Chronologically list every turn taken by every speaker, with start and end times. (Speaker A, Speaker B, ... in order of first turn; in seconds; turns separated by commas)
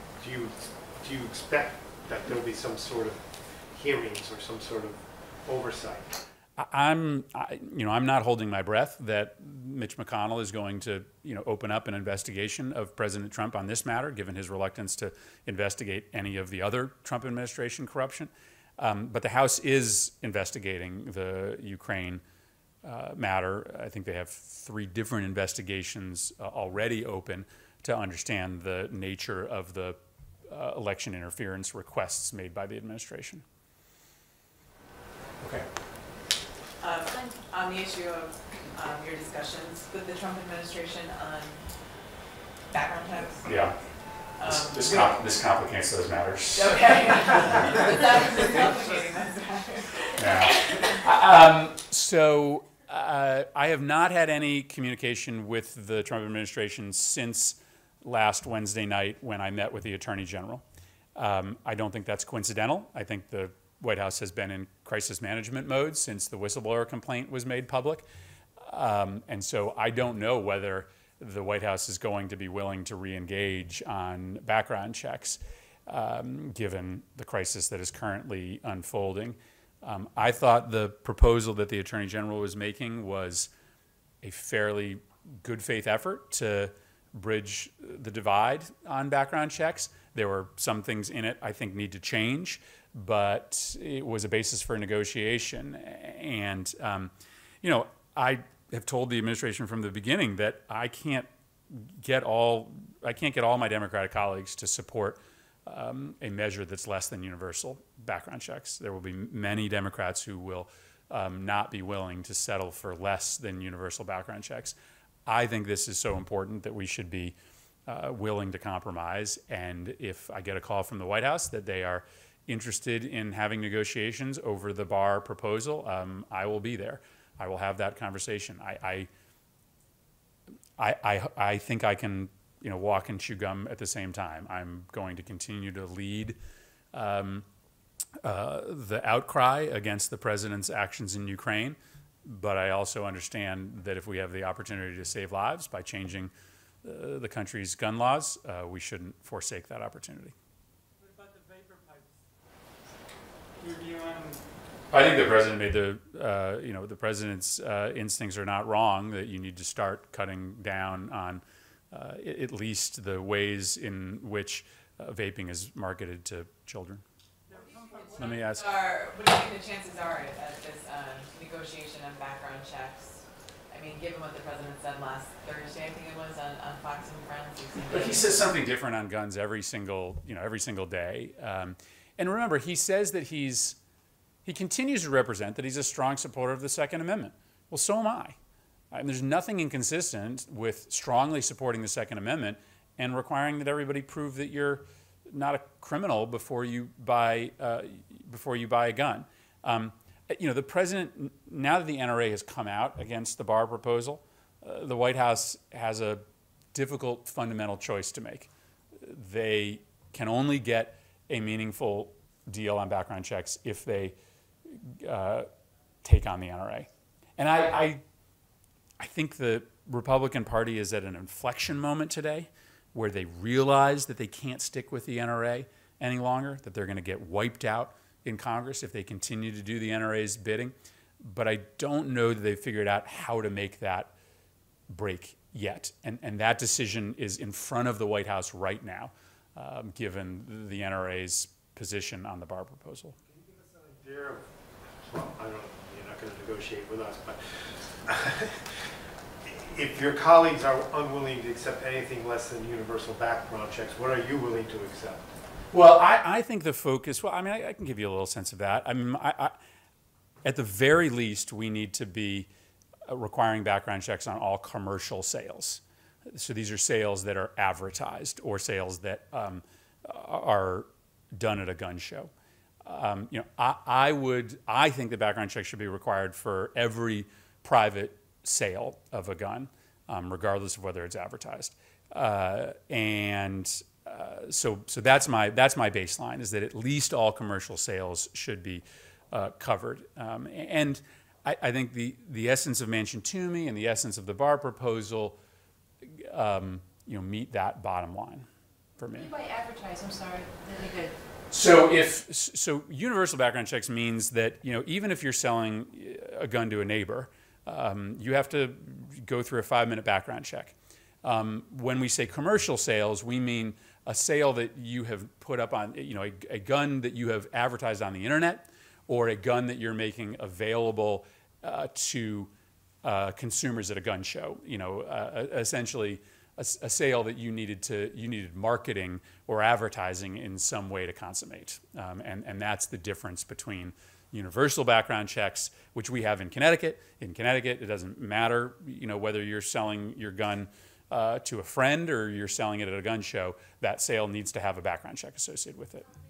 Speaker A: 0.2-6.2, Speaker B: 6.6-22.2, Speaker B: 22.8-33.4, Speaker B: 35.4-35.7, Speaker C: 36.8-41.6, Speaker C: 42.7-43.5, Speaker B: 43.5-43.8, Speaker C: 44.4-45.1, Speaker B: 44.5-46.8, Speaker C: 46.5-51.0, Speaker B: 50.2-60.6, Speaker B: 61.2-68.1, Speaker B: 68.7-83.5, Speaker B: 84.2-117.4, Speaker B: 117.9-129.1, Speaker B: 130.8-136.4, Speaker B: 136.9-137.5, Speaker B: 138.2-146.3, Speaker B: 146.8-150.3, Speaker D: 151.0-152.2, Speaker B: 154.9-167.0, Speaker D: 167.5-168.4, Speaker C: 167.6-178.3, Speaker B: 168.1-168.7, Speaker B: 177.9-183.8, Speaker B: 184.4-188.4, Speaker B: 188.9-206.2, Speaker B: 206.7-208.5, Speaker B: 209.0-214.2, Speaker B: 214.7-215.5, Speaker B: 216.0-218.0, Speaker B: 219.0-234.1, Speaker B: 234.9-243.2, Speaker A: 243.3-248.9, Speaker A: 249.4-255.3, Speaker B: 255.7-259.6, Speaker B: 260.4-262.5, Speaker B: 263.1-265.8, Speaker B: 266.3-272.3, Speaker B: 272.9-295.4, Speaker B: 296.1-298.5, Speaker B: 299.0-299.3, Speaker E: 299.1-301.1, Speaker B: 301.5-322.5, Speaker B: 323.0-346.1